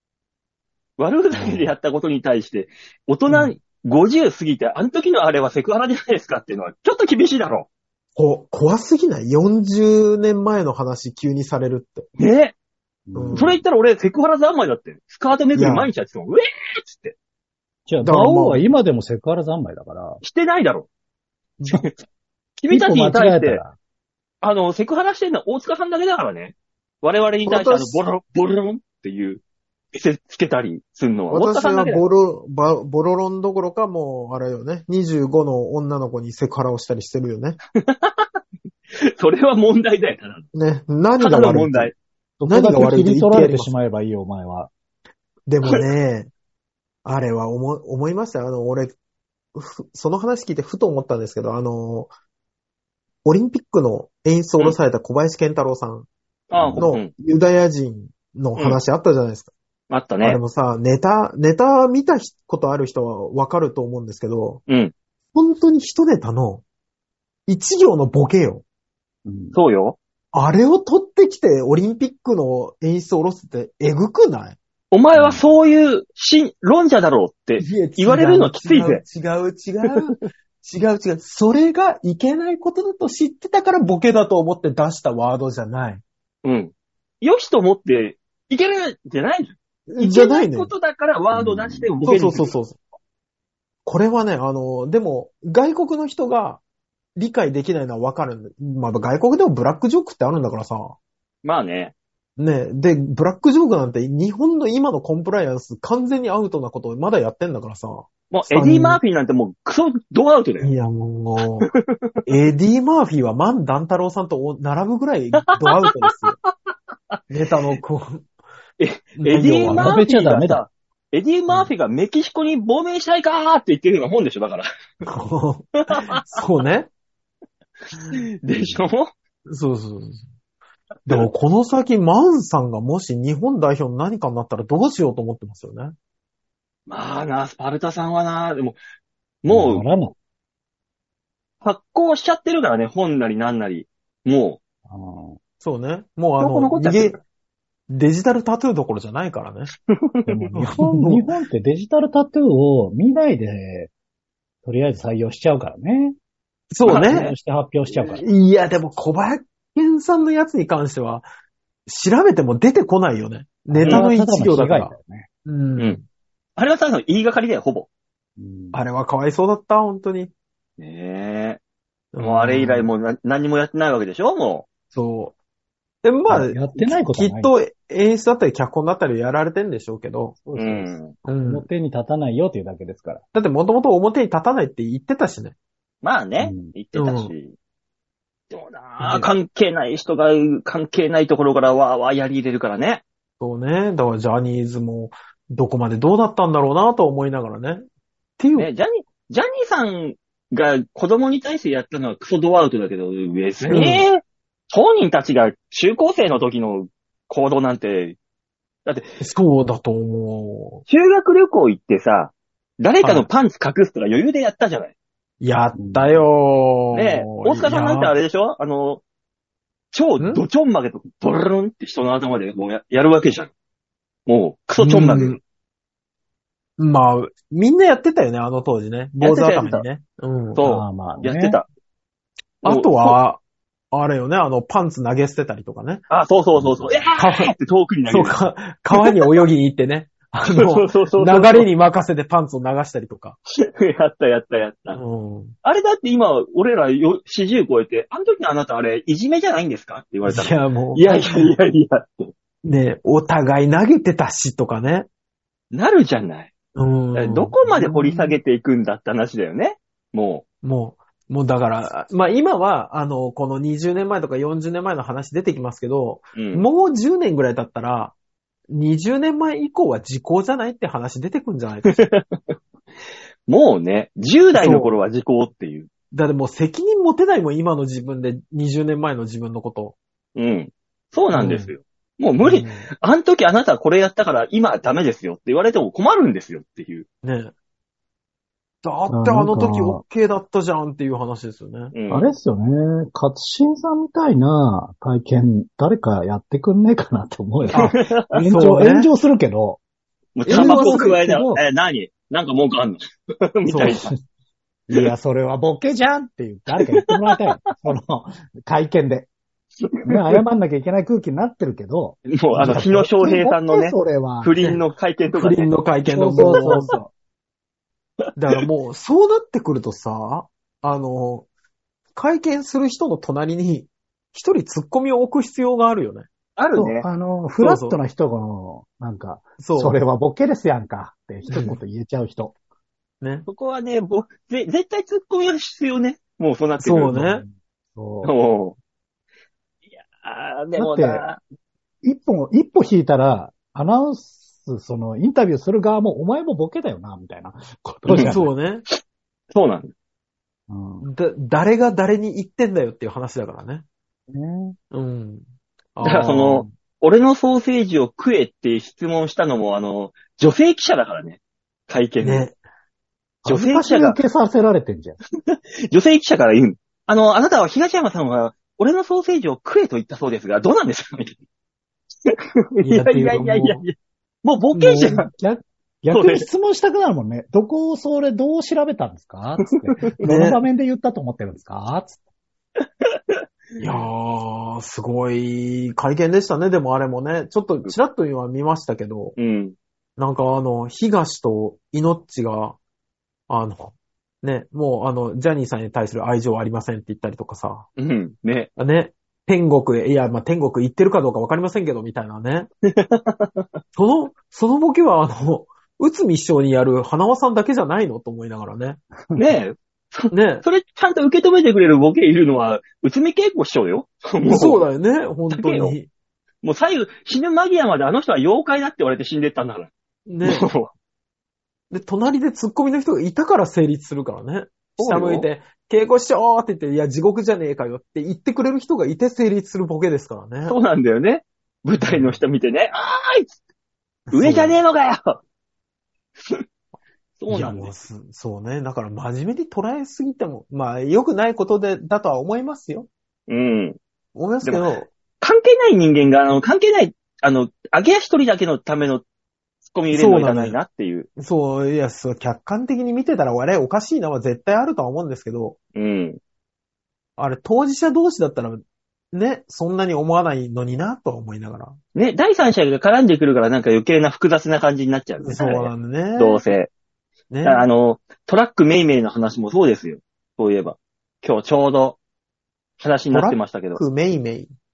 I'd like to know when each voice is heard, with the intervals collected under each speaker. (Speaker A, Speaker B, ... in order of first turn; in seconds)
Speaker A: 1.0-7.7, 12.2-12.6, 13.4-17.1, 20.2-20.9, 22.6-23.6, 24.4-29.4, 29.9-32.0, 37.8-38.3, 39.1-40.5, 41.2-42.0, 56.5-57.1, 59.9-60.4, 64.7-64.9, 69.5-70.0, 74.9-79.0, 86.4-92.5, 101.4-101.9, 108.3-110.7, 111.6-112.2, 115.5-116.3, 118.8-124.7, 125.9-126.4, 128.1-129.1, 136.9-138.8, 139.4-139.9, 141.6-144.6, 146.4-147.2, 149.9-150.5, 156.8-157.3, 165.8-166.0, 166.6-167.9, 170.8-171.6, 172.2-174.7, 180.6-181.1, 186.0-187.5, 188.5-193.0, 198.6-208.2, 208.9-209.2, 210.9-214.9, 216.9-219.0, 219.9-223.5, 224.3-225.4, 229.2-229.8, 230.6-231.7, 232.6-233.2, 236.1-238.4, 238.9-239.4, 240.5-241.7, 243.7-245.0, 245.6-252.3, 255.7-256.5, 257.1-260.4, 266.4-266.7, 271.9-272.5, 273.5-275.9, 280.4-287.1, 291.9-292.4, 297.7-298.5, 300.4-304.1, 306.7-307.4, 309.8-310.4, 312.3-315.7, 316.5-316.8, 326.6-327.1, 333.5-337.2, 338.2-338.8, 340.0-341.4, 348.1-348.3, 349.5-349.9, 356.0-362.5, 363.5-364.2, 365.5-371.4, 372.3-375.3, 376.1-376.5, 379.7-380.1, 383.3-384.1, 389.4-389.8, 398.0-398.7, 402.9-403.7, 409.4-414.8, 415.5-416.0, 416.6-419.9, 420.4-420.9, 425.0-425.5, 430.7-433.5, 434.3-435.4, 437.4-437.9, 443.5-444.0, 444.6-449.2, 449.9-451.3, 455.9-456.4, 462.1-466.9, 467.6-472.2, 473.0-474.0
Speaker B: 1.3-1.7, 13.1-13.6, 17.9-20.2, 22.7-23.8, 42.4-44.7, 56.5-56.9, 69.3-69.6, 75.2-75.4, 91.3-91.9, 119.7-120.6, 139.5-140.2, 144.9-145.4, 150.3-153.9, 154.6-156.2, 156.9-158.3, 163.7-165.3, 168.4-168.8, 176.3-177.5, 180.4-183.2, 186.4-186.7, 215.8-216.2, 230.6-231.6, 236.6-237.0, 289.1-290.0, 292.1-299.8, 300.5-301.6, 303.8-304.1, 304.9-309.3, 310.1-314.6, 316.1-317.1, 326.8-332.6, 337.1-338.3, 340.8-341.3, 342.0-348.5, 350.7-351.1, 354.3-354.8, 363.4-365.2, 375.3-382.2
Speaker C: 8.2-12.1, 13.1-13.6, 15.5-15.9, 18.0-18.7, 27.5-28.0, 31.3-37.6, 40.5-41.9, 42.5-43.7, 45.5-46.3, 47.0-49.0, 49.5-52.1, 53.2-56.1, 56.8-59.5, 60.2-64.6, 65.3-66.6, 67.5-68.6, 70.3-74.6, 77.6-86.0, 89.9-90.7, 92.0-92.8, 93.9-96.6, 97.2-101.0, 102.4-109.0, 110.6-111.7, 112.2-116.3, 117.3-118.3, 119.2-120.0, 125.1-126.9, 129.5-130.2, 131.1-135.9, 145.6-147.2, 147.9-149.7, 150.5-151.3, 156.7-157.3, 158.1-161.3, 161.9-166.0, 168.7-170.3, 172.1-172.9, 174.9-175.4, 176.0-180.4, 181.2-181.7, 183.3-185.6, 186.9-187.3, 189.0-189.3, 193.4-197.8, 198.4-198.7, 203.7-204.1, 209.2-210.8, 213.0-213.3, 215.4-218.1, 224.8-225.4, 226.8-230.6, 232.6-233.4, 233.9-236.0, 237.1-237.5, 238.1-243.4, 244.9-245.5, 250.3-251.6, 252.6-255.1, 256.8-258.4, 260.6-268.1, 268.7-272.1, 274.5-275.0, 276.1-280.0, 281.3-281.7, 282.4-282.9, 287.2-287.5, 288.8-291.9, 297.7-299.1, 300.4-301.2, 303.7-304.1, 312.5-312.9, 315.3-317.0, 318.4-321.5, 322.1-326.3, 327.6-328.0, 329.6-330.0, 331.5-331.8, 333.2-333.5, 336.8-337.4, 348.2-348.8, 351.0-353.8, 354.9-355.4, 356.0-356.7, 362.2-362.6, 372.8-373.8, 374.8-375.3, 380.2-380.6, 383.8-389.4, 390.2-392.8, 393.5-397.9, 398.8-402.7, 403.9-409.0, 410.3-410.6, 414.4-416.1, 420.3-420.7, 421.9-430.8, 432.0-432.4, 434.3-434.8, 437.5-443.1, 444.4-445.1, 450.1-450.8, 451.4-455.8, 457.4-458.8, 459.3-462.0, 465.4-466.6, 467.5-467.9, 473.3-474.7